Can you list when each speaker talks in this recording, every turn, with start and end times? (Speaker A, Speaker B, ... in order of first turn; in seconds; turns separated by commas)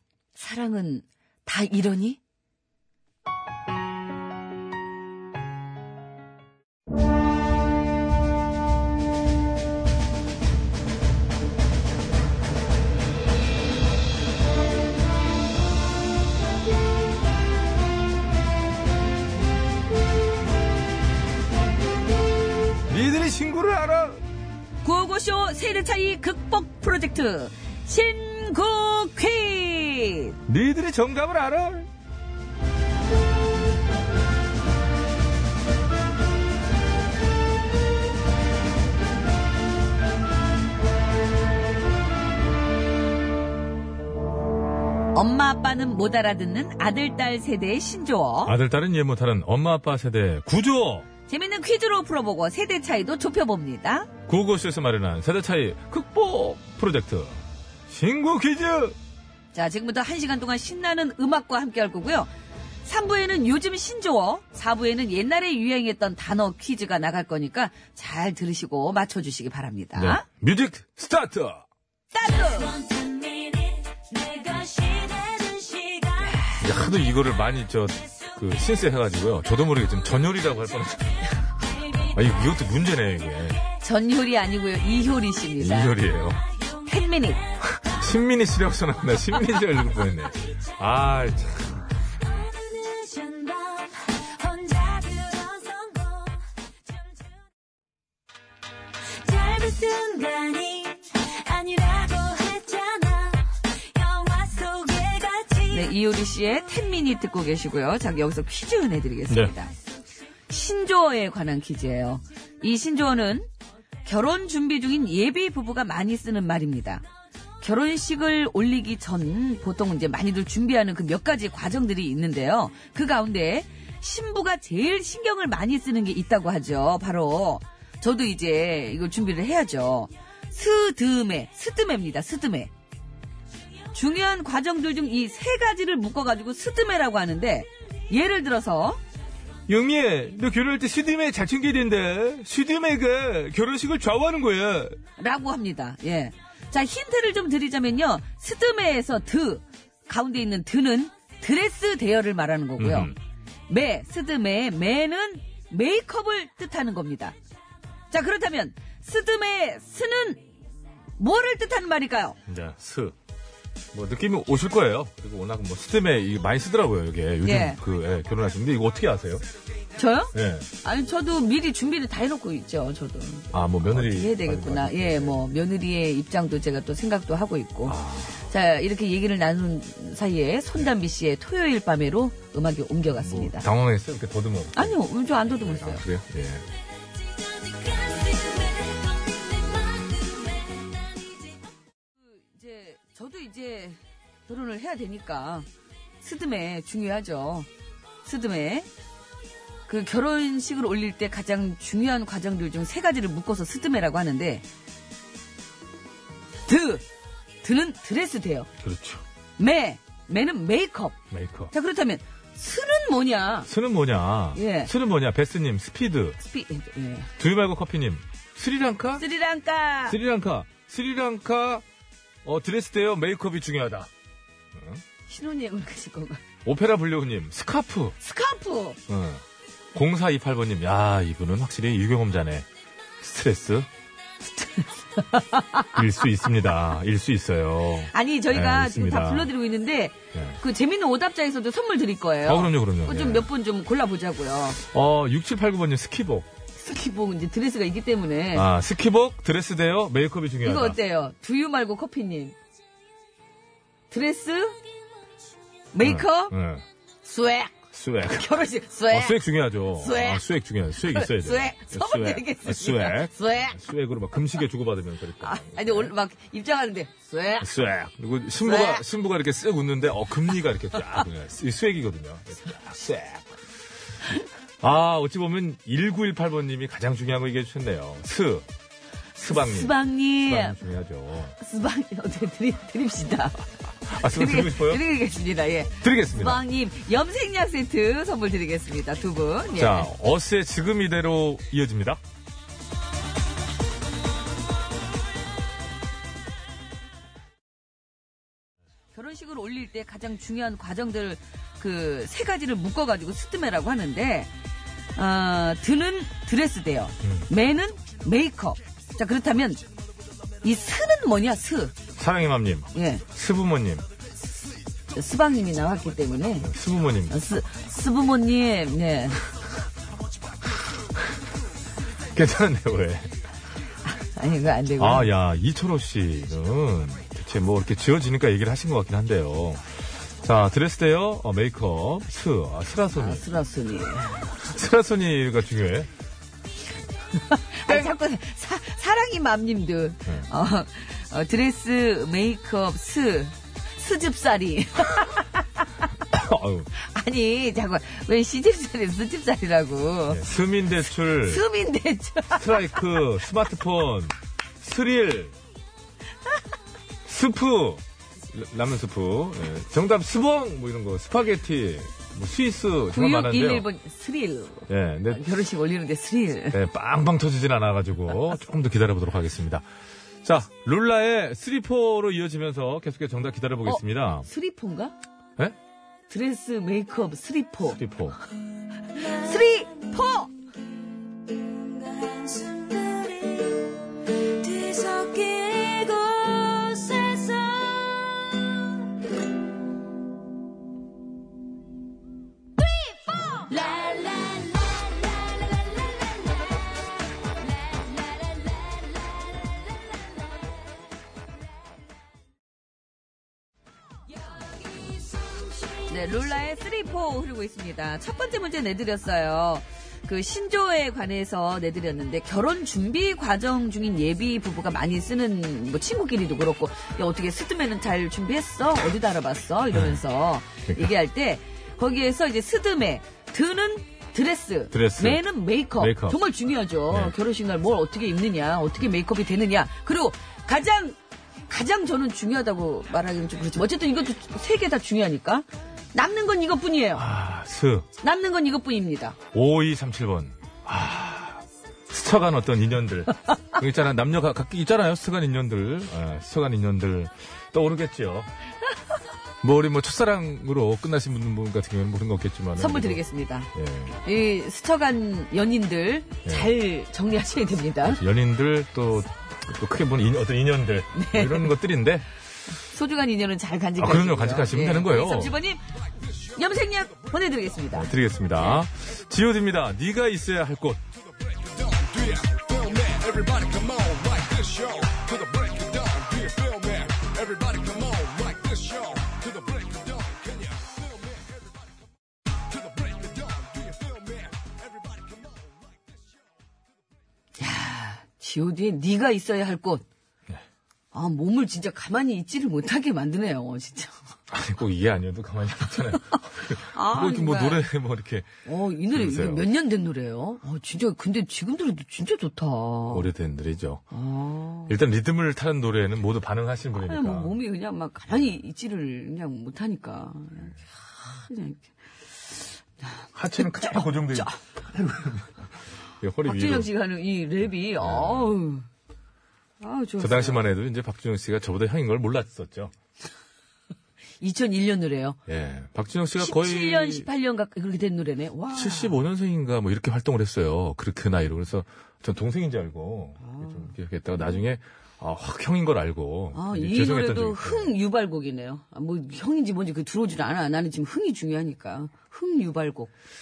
Speaker A: 0.3-2.2, Speaker B: 22.9-24.2, Speaker A: 24.8-30.4, Speaker B: 30.4-31.9, Speaker A: 45.1-48.5, Speaker B: 48.4-51.1, Speaker A: 51.3-54.1, Speaker B: 54.3-59.0, Speaker A: 59.5-62.3, Speaker A: 62.9-70.2, Speaker B: 69.9-71.6, Speaker A: 72.1-72.7, Speaker C: 72.3-76.3, Speaker A: 76.2-76.6, Speaker B: 76.6-81.2, Speaker C: 81.8-82.1, Speaker B: 82.1-83.6, Speaker A: 83.8-86.0, Speaker B: 85.6-86.4, Speaker C: 86.6-87.8, Speaker A: 86.8-87.4, Speaker B: 87.7-91.8, Speaker C: 92.2-97.4, Speaker C: 99.2-105.9, Speaker A: 105.7-109.7, Speaker A: 110.5-113.5, Speaker A: 114.0-117.0, Speaker A: 117.6-132.7, Speaker A: 133.9-139.0, Speaker B: 139.7-145.0, Speaker A: 145.2-153.1, Speaker B: 152.8-153.2, Speaker A: 153.7-157.3, Speaker A: 158.1-160.4, Speaker A: 161.2-162.4, Speaker B: 162.4-163.1, Speaker B: 163.9-169.4, Speaker A: 167.4-167.8, Speaker A: 170.0-183.7, Speaker B: 170.3-170.7, Speaker B: 173.5-175.4, Speaker B: 177.8-178.4, Speaker B: 183.2-186.7, Speaker A: 184.7-186.0, Speaker C: 187.3-191.5, Speaker A: 192.3-195.7, Speaker A: 196.2-197.7, Speaker A: 198.2-198.9, Speaker A: 199.9-204.6, Speaker A: 206.7-207.0, Speaker A: 207.6-208.7, Speaker B: 208.8-209.2, Speaker A: 209.6-211.2, Speaker B: 211.3-211.7, Speaker A: 211.7-213.7, Speaker B: 213.7-216.4, Speaker A: 214.5-214.9, Speaker A: 216.4-217.3, Speaker B: 217.4-219.2, Speaker A: 219.2-220.2, Speaker B: 220.1-221.8, Speaker B: 222.4-224.1, Speaker B: 224.7-225.0, Speaker A: 225.3-226.4, Speaker B: 226.6-228.1, Speaker A: 228.2-229.0, Speaker B: 229.1-229.4, Speaker B: 229.9-232.7, Speaker B: 233.2-233.9, Speaker A: 234.6-236.0, Speaker B: 235.9-239.5, Speaker A: 238.1-244.8, Speaker B: 240.3-240.6, Speaker B: 242.4-243.5, Speaker B: 244.8-246.5, Speaker A: 246.7-248.7, Speaker B: 248.5-251.0, Speaker A: 250.6-252.6, Speaker A: 254.1-254.8, Speaker A: 255.9-256.5, Speaker B: 256.0-256.8, Speaker A: 257.2-257.7, Speaker B: 257.9-266.1, Speaker A: 258.3-259.4, Speaker A: 260.0-260.4, Speaker A: 261.0-263.8, Speaker A: 265.4-267.7, Speaker B: 267.6-273.6, Speaker A: 268.6-269.0, Speaker B: 274.8-278.7, Speaker B: 279.4-279.9, Speaker A: 279.4-280.8, Speaker B: 280.4-281.5, Speaker A: 281.6-283.6, Speaker B: 284.1-285.0, Speaker A: 284.2-290.1, Speaker B: 286.0-286.6, Speaker B: 289.7-292.2, Speaker A: 299.1-304.5, Speaker A: 305.1-309.8, Speaker B: 307.2-307.5, Speaker A: 310.6-311.9, Speaker B: 312.1-314.0, Speaker A: 312.9-313.2, Speaker A: 315.1-316.7, Speaker B: 316.6-317.4, Speaker A: 317.3-319.4, Speaker B: 322.3-323.3, Speaker A: 324.0-325.3, Speaker B: 325.0-333.4, Speaker A: 333.1-334.5, Speaker B: 334.6-336.1, Speaker A: 337.5-345.6, Speaker B: 337.9-338.1, Speaker B: 346.3-346.9, Speaker A: 346.9-350.5, Speaker B: 350.3-351.6, Speaker A: 351.3-353.2, Speaker B: 352.5-355.6, Speaker B: 357.2-363.9, Speaker A: 363.1-366.8, Speaker B: 364.9-365.5, Speaker B: 366.7-369.9, Speaker B: 370.4-374.5, Speaker A: 373.9-375.1, Speaker A: 376.3-378.0, Speaker B: 377.9-378.4, Speaker C: 379.1-380.1, Speaker A: 379.2-380.5, Speaker C: 381.6-388.8, Speaker C: 393.4-396.8, Speaker C: 397.7-398.8, Speaker C: 405.5-406.0, Speaker A: 406.1-437.3, Speaker B: 419.9-420.2, Speaker B: 424.9-425.4, Speaker B: 426.0-426.4, Speaker B: 427.1-427.3, Speaker B: 437.1-438.1, Speaker A: 438.2-439.4, Speaker B: 439.5-448.5, Speaker B: 449.6-453.2, Speaker A: 452.8-453.7, Speaker B: 453.7-454.2, Speaker A: 454.2-458.2, Speaker B: 456.4-456.7, Speaker B: 458.0-462.3, Speaker A: 461.1-461.7, Speaker A: 462.9-465.8, Speaker B: 464.0-465.6, Speaker A: 466.5-468.8, Speaker B: 467.9-471.1, Speaker B: 471.9-479.9, Speaker A: 487.6-490.0, Speaker A: 491.1-494.2, Speaker B: 494.5-498.5, Speaker A: 496.8-497.9, Speaker A: 498.6-503.2, Speaker B: 499.1-499.7, Speaker B: 503.1-504.0, Speaker A: 504.1-504.9, Speaker B: 504.9-507.5, Speaker A: 507.0-514.5, Speaker B: 513.3-515.7, Speaker B: 516.2-516.9, Speaker A: 516.4-518.9, Speaker B: 518.0-518.5, Speaker A: 519.8-520.6, Speaker B: 520.2-522.9, Speaker A: 524.4-525.4, Speaker B: 525.5-527.3, Speaker A: 526.4-529.1, Speaker B: 528.7-537.9, Speaker A: 533.4-533.9, Speaker A: 536.5-543.1